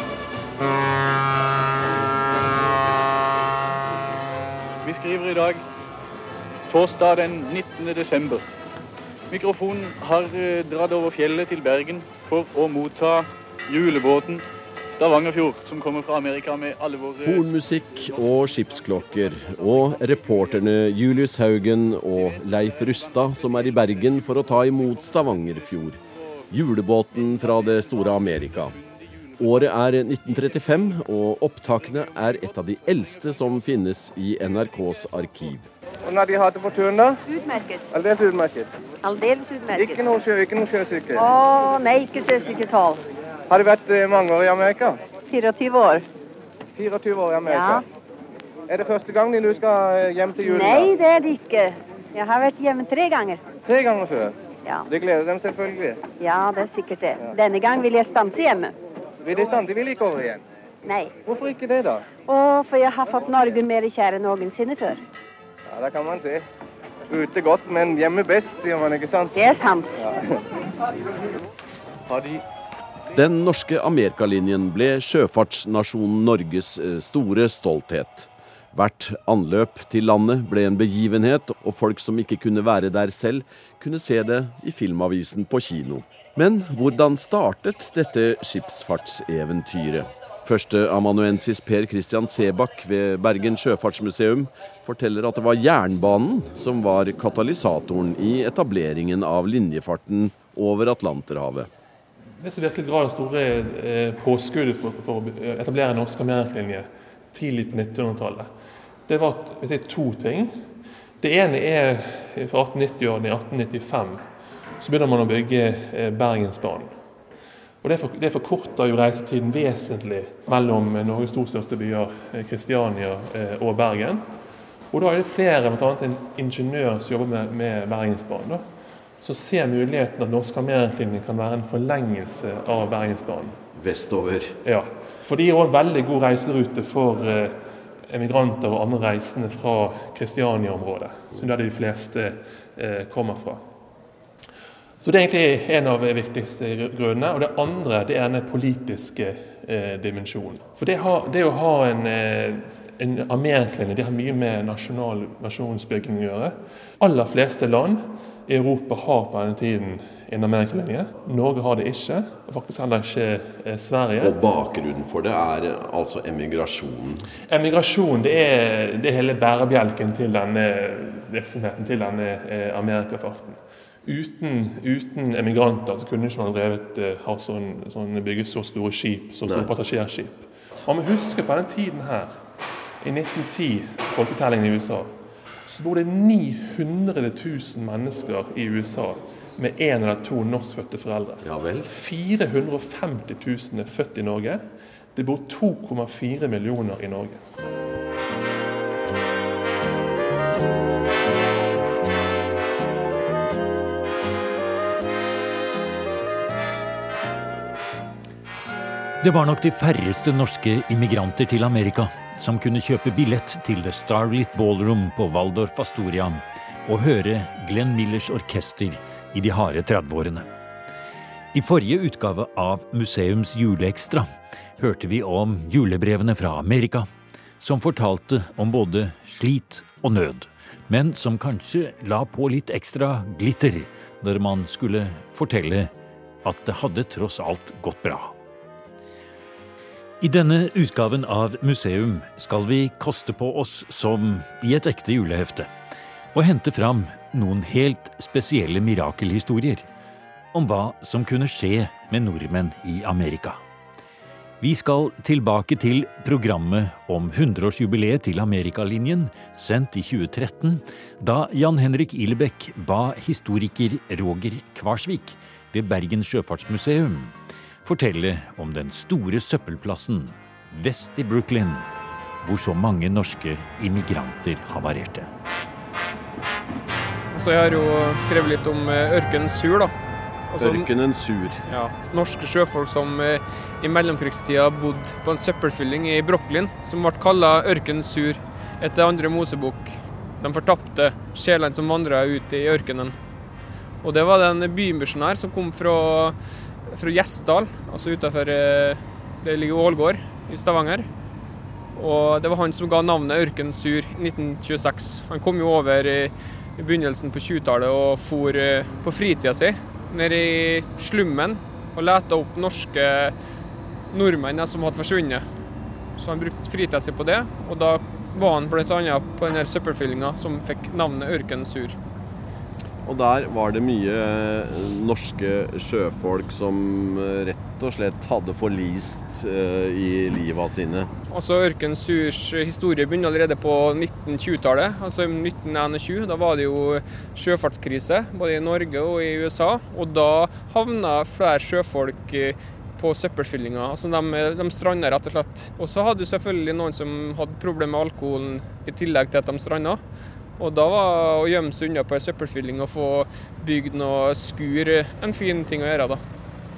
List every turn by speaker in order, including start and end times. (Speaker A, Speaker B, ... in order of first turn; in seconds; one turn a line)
Speaker A: 4.8-5.6
Speaker A: 6.7-8.4
Speaker A: 9.3-14.4
Speaker A: 15.0-17.4
Speaker B: 17.2-26.0
Speaker B: 26.5-28.8
Speaker B: 29.4-35.7
Speaker C: 36.0-37.2
Speaker D: 37.3-37.8
Speaker C: 37.9-38.7
Speaker D: 39.0-40.1
Speaker C: 39.7-41.3
Speaker D: 41.2-43.0
Speaker C: 43.5-45.0
Speaker D: 45.3-46.0
Speaker C: 46.8-47.8
Speaker D: 47.5-47.8
Speaker C: 48.7-51.0
Speaker D: 50.4-53.4
Speaker C: 53.7-54.4
Speaker C: 54.9-56.0
Speaker D: 56.2-58.7
Speaker C: 59.2-60.4
Speaker D: 60.9-61.1
Speaker C: 61.2-62.1
Speaker D: 62.3-65.0
Speaker C: 65.7-66.4
Speaker C: 67.1-70.4
Speaker D: 69.3-69.9
Speaker B: 73.1-101.7
Speaker E: 102.4-108.5
Speaker E: 109.1-110.5
Speaker E: 111.2-114.2
Speaker E: 114.8-116.9
Speaker E: 117.8-124.3
Speaker E: 124.9-128.6
Speaker E: 129.2-133.6
Speaker B: 133.8-134.6
Speaker E: 134.6-137.6
Speaker E: 138.1-143.6
Speaker E: 145.0-164.4
Speaker B: 164.2-167.2
Speaker E: 167.5-182.4
Speaker E: 183.0-185.2
Speaker E: 185.7-194.6
Speaker B: 191.4-191.9
Speaker E: 195.2-197.4
Speaker F: 209.2-220.5
Speaker F: 221.5-227.1
Speaker F: 227.6-235.9
Speaker F: 236.4-238.3
Speaker F: 240.2-245.7
Speaker F: 246.3-249.9
Speaker F: 250.5-253.6
Speaker F: 254.6-271.9
Speaker F: 272.4-275.3
Speaker G: 277.3-279.9
Speaker G: 280.5-280.9
Speaker B: 280.6-281.6
Speaker G: 281.7-293.1
Speaker G: 294.0-296.4
Speaker G: 296.9-301.1
Speaker G: 302.0-313.3
Speaker G: 314.1-315.4
Speaker G: 316.2-322.0
Speaker B: 323.0-331.1
Speaker G: 331.3-350.0
Speaker G: 350.6-356.2